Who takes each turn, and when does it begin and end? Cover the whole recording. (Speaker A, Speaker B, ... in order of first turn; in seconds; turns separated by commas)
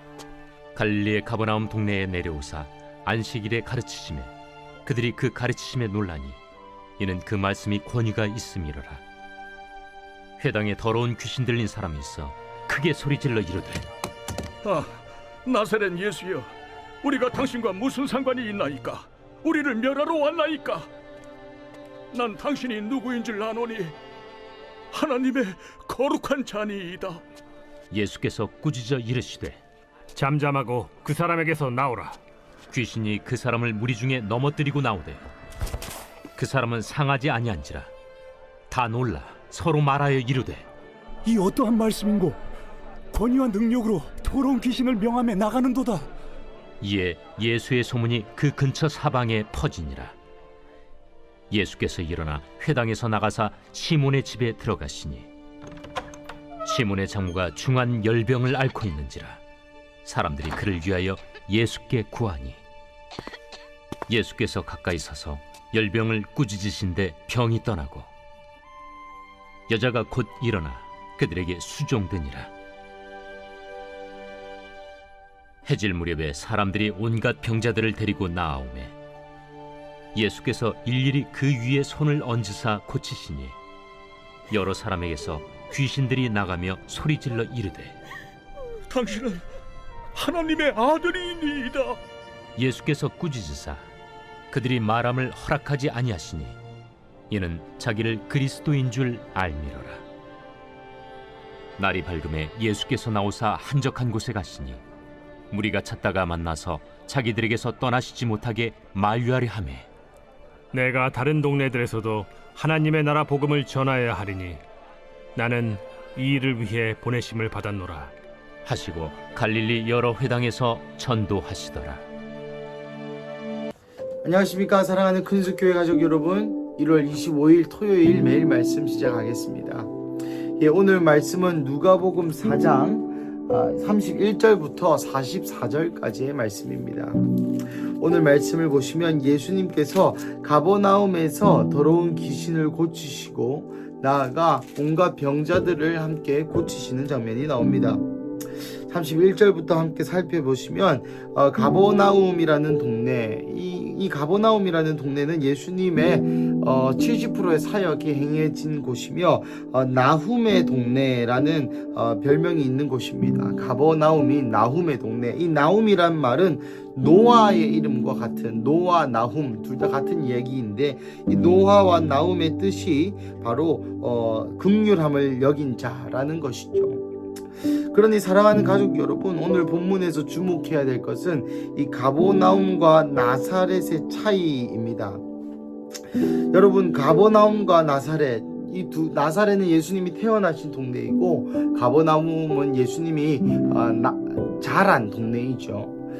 Speaker A: 0.7-4.3, Speaker A: 4.8-6.4, Speaker A: 7.0-9.0, Speaker A: 10.4-13.8, Speaker B: 14.6-20.9, Speaker B: 22.1-23.9, Speaker B: 24.9-27.2, Speaker A: 27.9-29.6, Speaker C: 30.1-32.2, Speaker A: 32.7-35.2, Speaker A: 36.4-37.9, Speaker A: 38.7-40.6, Speaker D: 41.2-42.3, Speaker D: 43.1-46.0, Speaker A: 46.8-50.1, Speaker A: 51.5-55.3, Speaker A: 56.6-59.4, Speaker A: 60.0-62.6, Speaker A: 64.1-68.1, Speaker A: 69.7-72.5, Speaker A: 75.6-78.9, Speaker A: 80.1-83.5, Speaker A: 84.5-87.9, Speaker B: 88.9-89.4, Speaker B: 90.1-92.0, Speaker A: 92.5-93.8, Speaker A: 94.5-96.6, Speaker A: 97.3-100.0, Speaker A: 101.8-104.8, Speaker A: 105.5-109.9, Speaker C: 110.7-114.6, Speaker C: 115.3-118.1, Speaker A: 118.6-122.0, Speaker E: 124.2-129.9, Speaker E: 130.6-148.0, Speaker E: 148.9-177.1, Speaker E: 177.6-185.2, Speaker E: 186.5-195.9